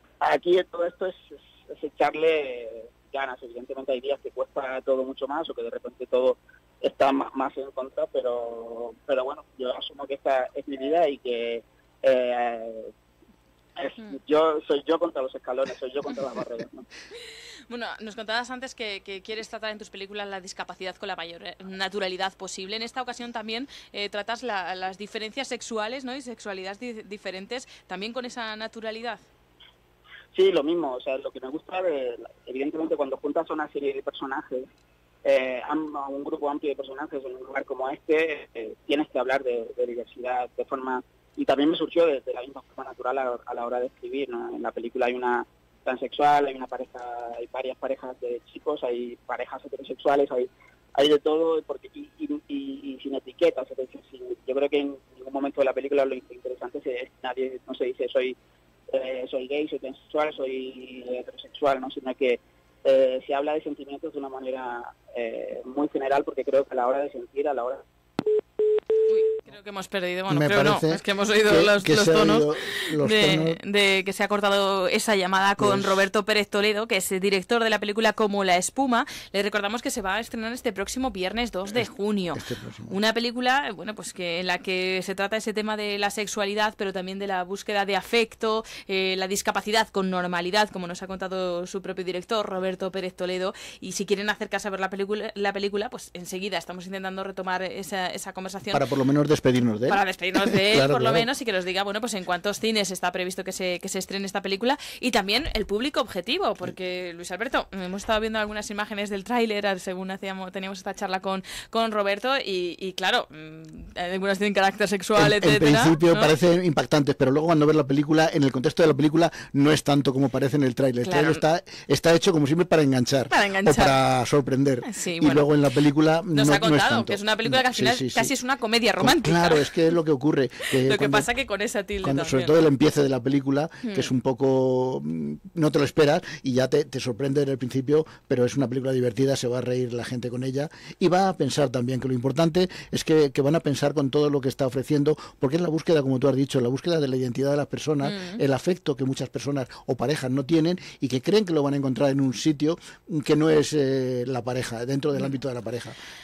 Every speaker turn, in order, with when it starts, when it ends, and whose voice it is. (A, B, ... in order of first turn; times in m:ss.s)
0:00.2-0:12.9 A
0:13.8-0:16.9 A
0:17.2-0:29.2 B
0:30.4-0:34.7 A
0:35.2-0:58.4 A
0:58.9-1:07.8 A
1:09.1-1:38.8 B
1:10.3-1:13.6 C
1:15.6-1:16.1 C
1:22.3-1:23.0 C
1:38.7-1:41.3 C
1:39.9-1:56.3 B
1:55.1-2:08.3 C
2:01.0-2:01.4 B
2:03.3-2:04.0 B
2:04.8-2:05.5 B
2:06.3-2:09.9 B
2:09.0-2:11.3 C
2:10.7-2:12.5 B
2:12.0-2:36.0 C
2:13.8-2:14.1 B
2:28.0-2:28.4 B